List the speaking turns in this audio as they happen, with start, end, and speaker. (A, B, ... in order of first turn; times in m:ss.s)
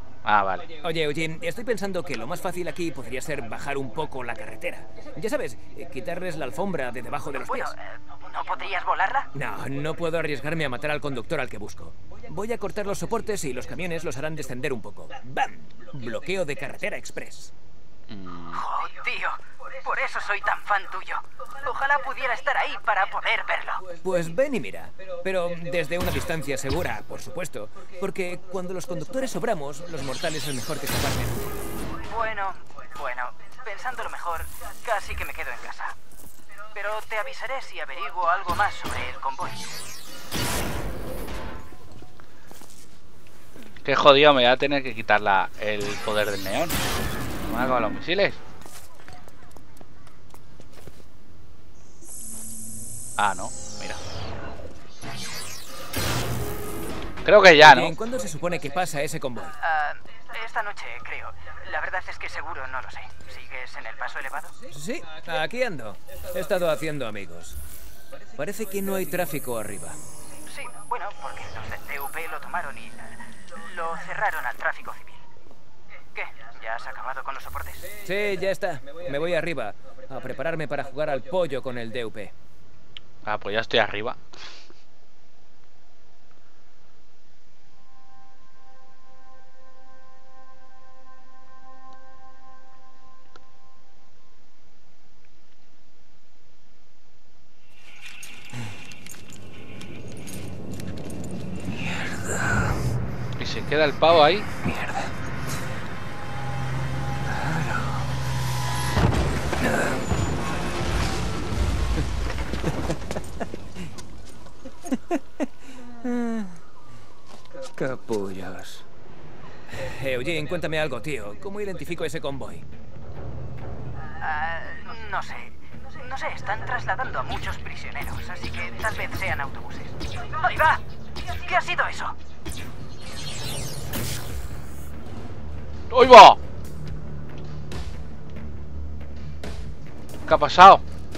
0:00.2-0:00.7 A
0:00.8-0:07.7 B
0:07.4-0:09.3 C
0:09.3-0:17.5 B
0:18.1-0:18.6 A
0:18.5-0:23.8 C
0:24.0-0:31.6 B
0:32.0-0:36.0 C
0:36.7-0:39.7 C
0:43.8-0:46.8 A
0:47.4-0:48.4 A
0:53.2-0:54.0 A
0:57.2-0:58.0 A
0:57.6-0:59.6 B
0:59.6-1:04.6 C
1:04.7-1:07.6 B
1:08.4-1:10.0 B
1:10.5-1:15.2 C
1:16.1-1:17.9 C
1:18.0-1:22.3 B
1:23.2-1:24.2 A
1:41.7-1:42.8 B
1:43.4-1:44.5 A
1:44.6-1:45.1 B
1:47.2-1:48.1 B
1:49.6-1:50.0 B
1:52.6-1:53.2 B
1:54.9-1:56.6 B
1:57.7-1:58.8 B
1:59.7-2:02.6 B
2:04.2-2:12.2 C
2:15.9-2:16.4 A
2:20.2-2:20.8 A